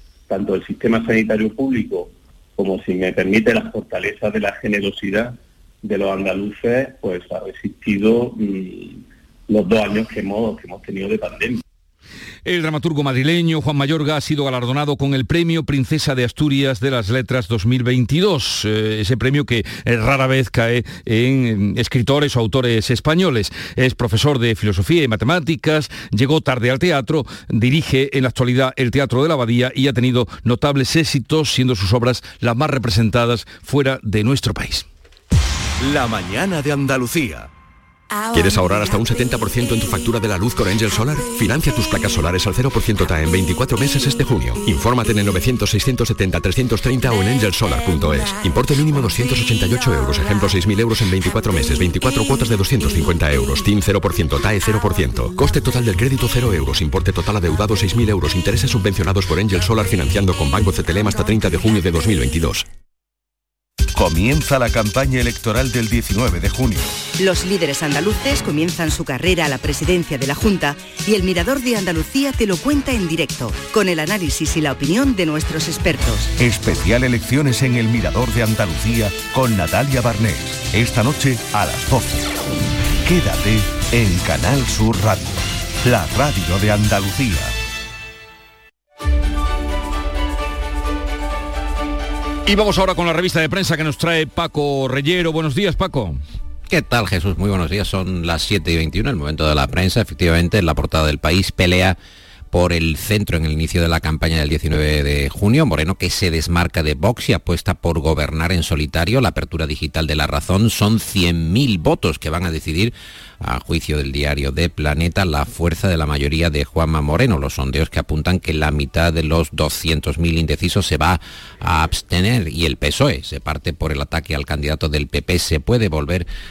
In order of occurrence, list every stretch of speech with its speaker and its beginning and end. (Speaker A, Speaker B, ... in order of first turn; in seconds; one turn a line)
Speaker A: 0.3-11.6
Speaker B: 12.4-34.9
Speaker C: 35.8-37.5
Speaker D: 38.4-62.6
Speaker C: 63.9-67.0
Speaker E: 67.2-76.3
Speaker C: 76.4-82.3
Speaker C: 83.0-87.5
Speaker B: 92.5-96.2
Speaker F: 96.7-102.0
Speaker F: 102.5-126.3